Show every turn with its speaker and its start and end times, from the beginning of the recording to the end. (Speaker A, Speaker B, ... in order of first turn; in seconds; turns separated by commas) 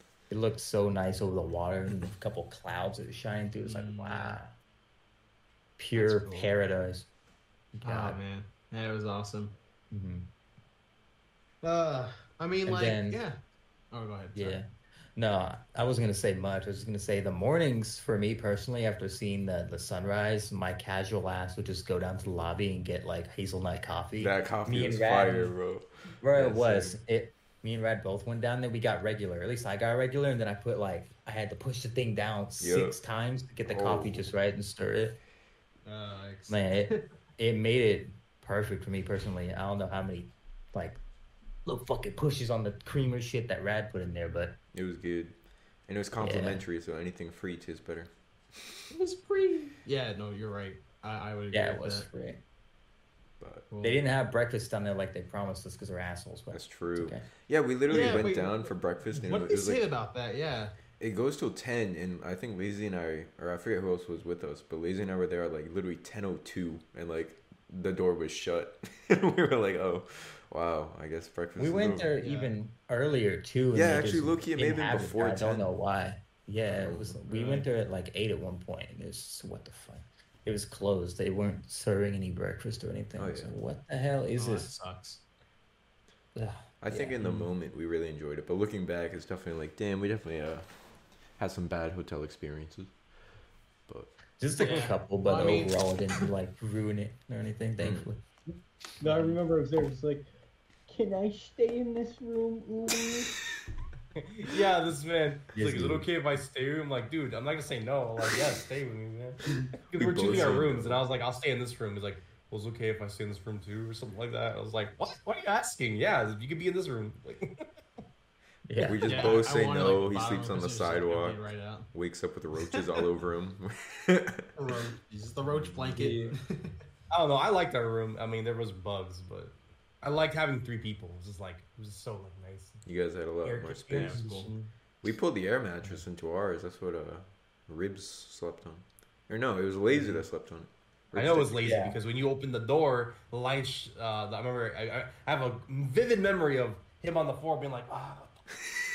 Speaker A: 0.3-4.5, Speaker B: 3.6-4.4, Speaker A: 5.8-7.1, Speaker B: 5.9-6.5, Speaker B: 7.8-9.5, Speaker A: 7.8-8.2, Speaker A: 9.9-10.3, Speaker B: 11.6-13.3, Speaker A: 12.7-13.2, Speaker B: 13.9-14.6, Speaker A: 14.3-14.6, Speaker A: 15.2-25.5, Speaker C: 24.2-27.0, Speaker A: 26.2-35.1, Speaker C: 32.6-33.0, Speaker C: 33.7-34.3, Speaker B: 35.9-37.0, Speaker A: 36.5-41.0, Speaker A: 41.6-44.5, Speaker C: 44.7-45.3, Speaker C: 45.9-48.7, Speaker A: 46.2-46.6, Speaker D: 48.9-49.7, Speaker B: 49.8-52.1, Speaker A: 51.5-52.4, Speaker C: 53.4-53.7, Speaker B: 53.7-54.0, Speaker A: 53.8-57.2, Speaker C: 56.5-59.9, Speaker B: 57.9-60.7, Speaker C: 61.0-72.1, Speaker A: 71.6-84.7, Speaker B: 72.2-72.5, Speaker C: 73.7-75.7, Speaker C: 76.7-77.2, Speaker B: 77.3-77.7, Speaker C: 83.2-83.5, Speaker B: 84.4-85.2, Speaker A: 86.3-87.3, Speaker C: 86.8-90.7, Speaker C: 91.4-92.9, Speaker C: 93.9-94.1, Speaker A: 94.4-98.2, Speaker B: 94.5-96.3, Speaker C: 97.8-98.0, Speaker E: 99.0-100.3, Speaker A: 99.0-99.3, Speaker E: 100.9-103.3, Speaker D: 104.3-117.7, Speaker A: 105.5-106.1, Speaker C: 109.9-111.0, Speaker A: 118.7-119.4, Speaker C: 118.8-124.5, Speaker B: 119.0-121.9, Speaker B: 124.6-126.7, Speaker C: 125.5-126.0, Speaker A: 126.0-126.3, Speaker D: 126.0-126.3, Speaker D: 127.1-132.8, Speaker C: 132.8-134.2, Speaker D: 133.4-134.5, Speaker B: 133.9-134.5, Speaker A: 134.2-134.7, Speaker C: 135.0-141.6, Speaker D: 139.9-140.2, Speaker D: 141.1-148.4, Speaker A: 141.6-141.9